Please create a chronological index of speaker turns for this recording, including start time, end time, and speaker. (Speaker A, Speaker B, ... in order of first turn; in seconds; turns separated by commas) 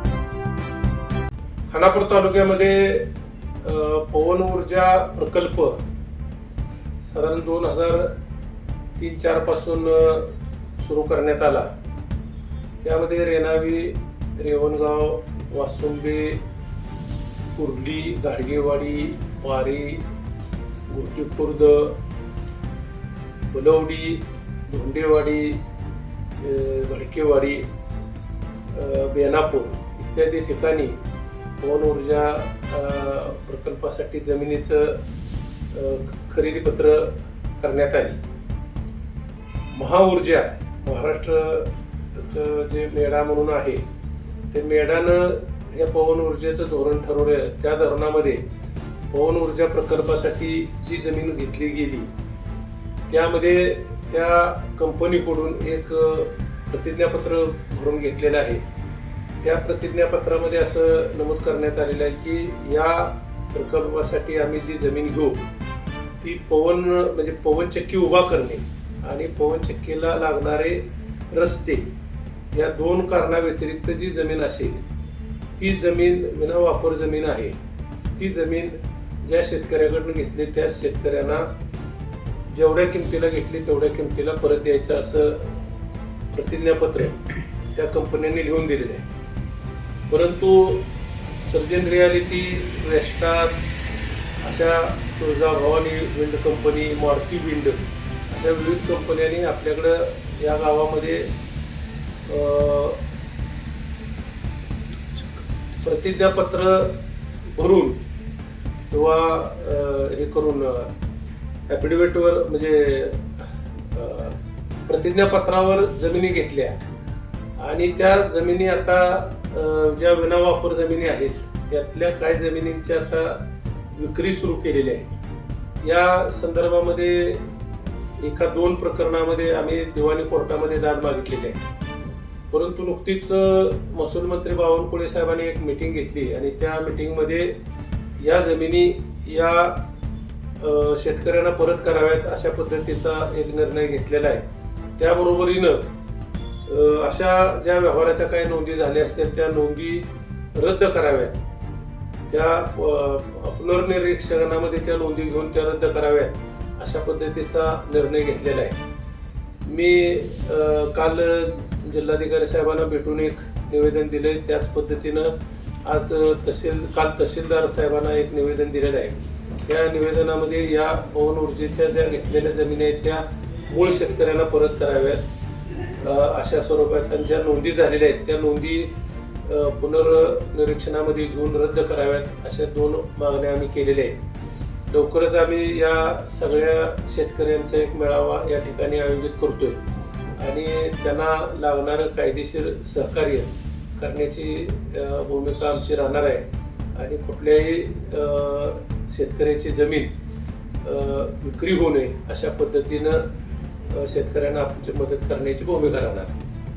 Speaker A: 1.7-3.1, Speaker A: 3.6-5.8, Speaker A: 7.0-8.1, Speaker A: 9.0-11.7, Speaker A: 12.8-16.4, Speaker A: 17.5-20.0, Speaker A: 20.9-21.9, Speaker A: 23.5-25.6, Speaker A: 26.4-27.7, Speaker A: 28.7-31.0, Speaker A: 31.6-35.0, Speaker A: 35.7-38.2, Speaker A: 39.7-43.8, Speaker A: 44.5-48.4, Speaker A: 49.1-52.1, Speaker A: 53.1-58.6, Speaker A: 59.4-65.5, Speaker A: 66.2-71.8, Speaker A: 72.5-74.8, Speaker A: 75.6-77.6, Speaker A: 78.2-81.5, Speaker A: 82.5-85.5, Speaker A: 86.3-87.2, Speaker A: 87.7-89.0, Speaker A: 90.1-90.9, Speaker A: 91.4-93.7, Speaker A: 94.4-101.3, Speaker A: 102.2-103.0, Speaker A: 105.8-107.0, Speaker A: 107.5-108.0, Speaker A: 108.9-110.9, Speaker A: 111.7-113.3, Speaker A: 113.9-116.8, Speaker A: 117.6-125.0, Speaker A: 125.8-127.4, Speaker A: 128.2-131.6, Speaker A: 132.5-137.6, Speaker A: 138.2-139.8, Speaker A: 140.6-144.4, Speaker A: 145.0-145.8, Speaker A: 146.7-151.4, Speaker A: 152.3-158.8, Speaker A: 159.7-165.3, Speaker A: 165.8-175.2, Speaker A: 176.0-178.9, Speaker A: 179.4-184.2, Speaker A: 184.9-189.8, Speaker A: 190.4-200.1, Speaker A: 200.8-203.2, Speaker A: 203.9-206.3